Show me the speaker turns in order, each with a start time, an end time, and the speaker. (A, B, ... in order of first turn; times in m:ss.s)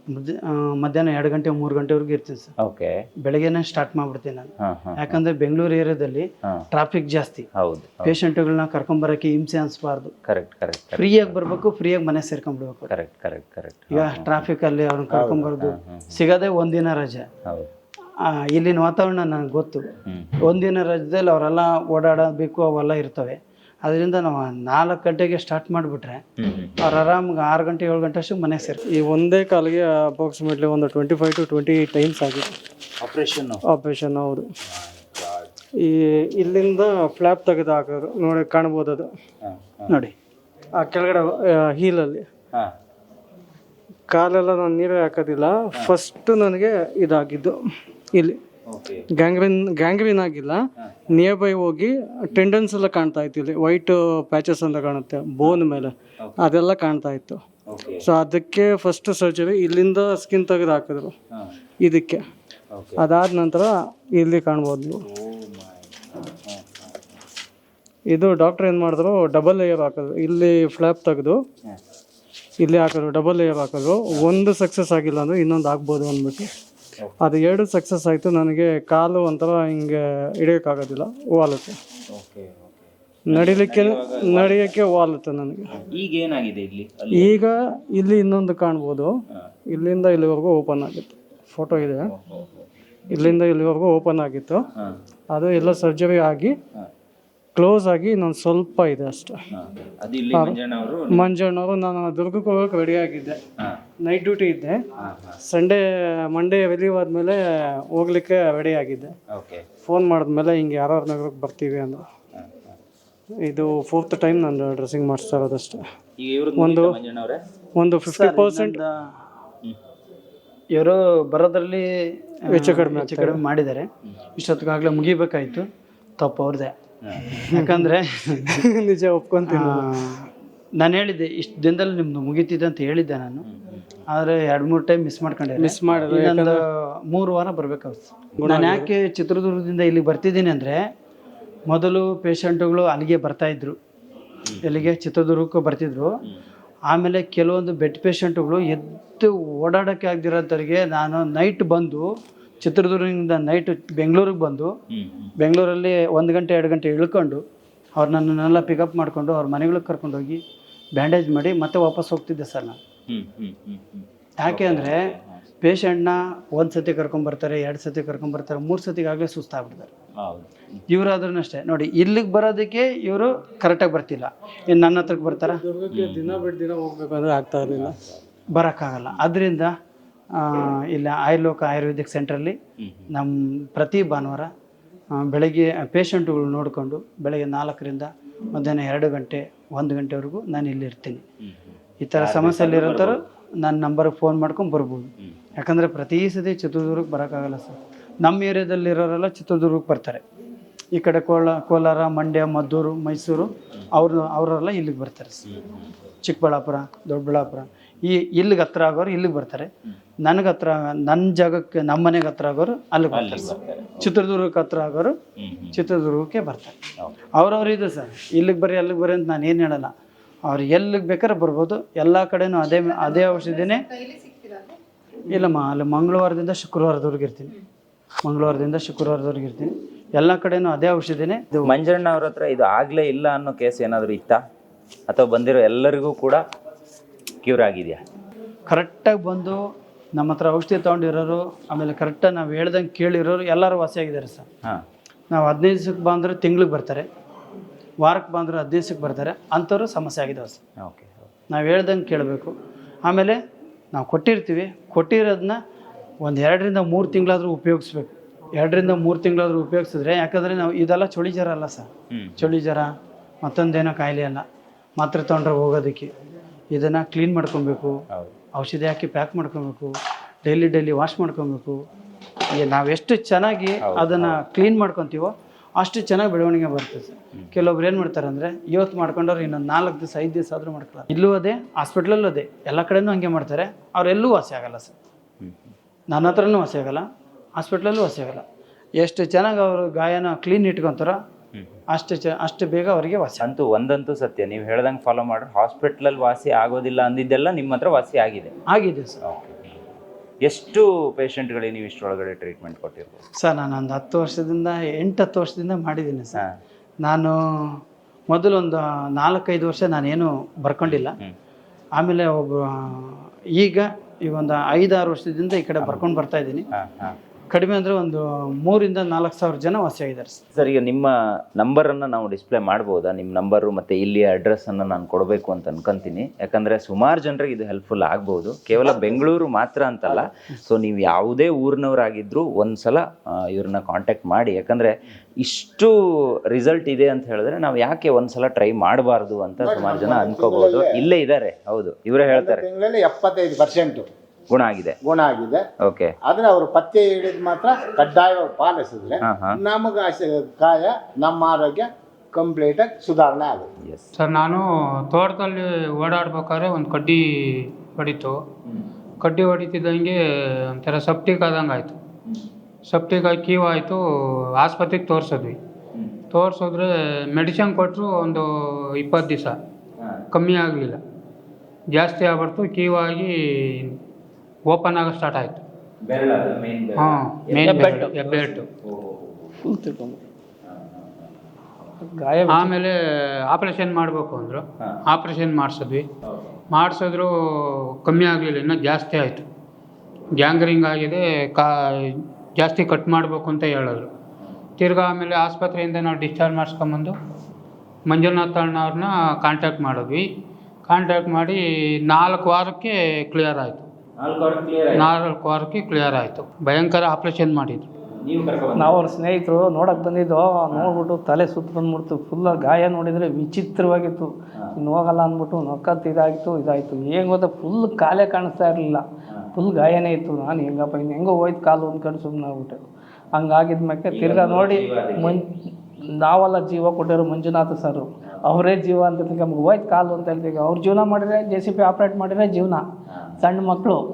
0:00.1-0:02.5 A
0:02.6-0:03.0 B
0:03.2-0:07.5 A
0:04.6-0:05.2 B
0:07.6-0:08.1 B
0:08.0-0:10.1 A
0:10.3-0:11.3 B
0:11.0-0:12.9 A
0:12.9-0:14.4 B
0:13.9-0:17.3 A
0:15.2-0:15.4 C
0:15.6-0:16.1 B
0:18.2-0:19.9 A
0:20.1-0:20.3 B
0:20.4-0:26.2 A
0:26.4-0:26.8 B
0:26.8-0:28.8 A
0:28.9-0:32.5 D
0:33.0-0:33.6 B
0:33.6-0:34.5 D
0:34.7-0:35.5 B
0:35.8-0:39.1 D
0:39.4-0:39.9 B
0:39.9-0:40.1 A
0:40.8-0:42.2 D
0:44.1-0:47.6 D
0:48.7-0:49.0 B
0:49.2-0:50.6 D
0:51.1-0:57.4 D
0:57.7-0:58.0 B
0:58.0-1:01.1 D
1:01.8-1:02.2 D
1:02.7-1:03.0 B
1:03.0-1:05.0 D
1:05.1-1:05.9 B
1:06.4-1:06.9 B
1:08.1-1:11.4 D
1:12.6-1:16.5 D
1:17.2-1:21.8 D
1:22.1-1:24.8 B
1:23.3-1:25.7 D
1:25.8-1:27.3 B
1:27.1-1:29.1 D
1:29.7-1:32.1 D
1:32.1-1:32.6 B
1:33.1-1:34.7 D
1:35.3-1:36.6 D
1:37.6-1:39.4 D
1:39.5-1:41.3 B
1:40.3-1:40.6 D
1:41.1-1:43.4 D
1:44.0-1:44.8 D
1:45.0-1:45.4 B
1:45.4-1:49.1 D
1:49.3-1:49.7 B
1:49.8-1:52.0 D
1:52.4-1:52.7 B
1:53.4-1:55.9 D
1:56.2-1:57.4 B
1:56.6-1:57.0 D
1:57.8-1:58.8 D
1:58.1-1:59.3 A
2:00.8-2:06.7 A
2:02.5-2:03.4 D
2:07.4-2:08.6 A
2:07.5-2:07.9 D
2:08.5-2:09.9 D
2:09.5-2:13.5 A
2:14.1-2:20.9 A
2:15.6-2:16.6 D
2:18.4-2:18.9 D
2:21.7-2:23.8 A
2:24.6-2:26.2 A
2:26.9-2:32.1 A
2:32.6-2:34.8 A
2:34.9-2:35.3 B
2:35.4-2:37.4 A
2:38.0-2:40.4 A
2:41.0-2:42.8 A
2:43.1-2:45.4 B
2:44.4-2:49.9 A
2:50.2-2:50.8 B
2:50.9-2:55.6 A
2:55.4-2:58.0 D
2:55.9-2:56.4 B
2:57.7-2:58.2 B
2:58.5-2:59.7 A
3:00.3-3:02.6 A
3:02.8-3:03.0 B
3:03.1-3:04.5 A
3:05.2-3:11.2 A
3:11.4-3:13.2 B
3:12.0-3:20.2 A
3:20.9-3:25.4 A
3:25.5-3:25.9 B
3:26.2-3:29.7 A
3:30.2-3:35.2 A
3:33.1-3:34.1 B
3:35.4-3:35.8 B
3:35.7-3:36.8 A
3:37.4-3:39.9 A
3:40.4-3:43.9 A
3:45.3-3:47.5 A
3:48.2-3:51.7 A
3:51.7-3:54.4 B
3:55.1-3:56.4 B
3:57.4-3:58.0 B
3:58.7-3:59.6 A
4:00.2-4:04.5 A
4:05.3-4:07.1 A
4:08.0-4:10.6 A
4:10.8-4:11.3 B
4:11.5-4:12.6 A
4:13.1-4:13.4 A
4:13.9-4:15.6 A
4:16.2-4:24.5 A
4:22.1-4:22.4 B
4:25.0-4:26.1 A
4:26.7-4:28.0 A
4:28.6-4:31.8 A
4:32.6-4:45.0 A
4:33.8-4:34.4 B
4:45.4-4:45.7 B
4:46.1-4:48.4 A
4:49.0-4:51.2 A
4:51.9-4:53.5 A
4:53.4-4:58.6 B
4:58.7-4:59.2 A
4:59.2-4:59.8 B
5:00.4-5:03.2 B
5:03.4-5:06.4 A
5:07.0-5:11.2 A
5:10.9-5:11.4 B
5:12.0-5:16.7 A
5:16.7-5:17.2 B
5:17.5-5:20.4 A
5:20.5-5:42.6 B
5:39.6-5:41.0 C
5:42.2-5:44.1 C
5:44.5-5:45.0 B
5:45.0-5:45.6 C
5:45.8-5:46.2 B
5:46.2-5:53.7 C
5:49.2-5:49.6 B
5:53.8-5:54.1 B
5:54.2-5:58.4 E
5:59.2-6:02.0 E
6:02.9-6:04.0 E
6:04.6-6:05.6 E
6:06.3-6:09.6 E
6:10.3-6:11.0 E
6:11.9-6:14.0 E
6:14.7-6:15.6 E
6:16.0-6:19.5 B
6:17.0-6:18.7 E
6:17.7-6:18.1 F
6:19.6-6:20.2 F
6:20.7-6:21.3 B
6:22.0-6:22.8 F
6:22.5-6:23.0 E
6:23.5-6:26.1 E
6:26.3-6:26.6 B
6:26.7-6:29.4 E
6:30.4-6:34.1 E
6:34.8-6:37.2 E
6:38.1-6:40.3 E
6:40.9-6:43.9 E
6:44.2-6:45.1 B
6:45.0-6:47.9 E
6:48.2-6:49.1 B
6:48.8-7:02.8 F
7:03.4-7:05.5 F
7:04.1-7:05.4 B
7:06.2-7:12.8 F
7:13.4-7:14.0 F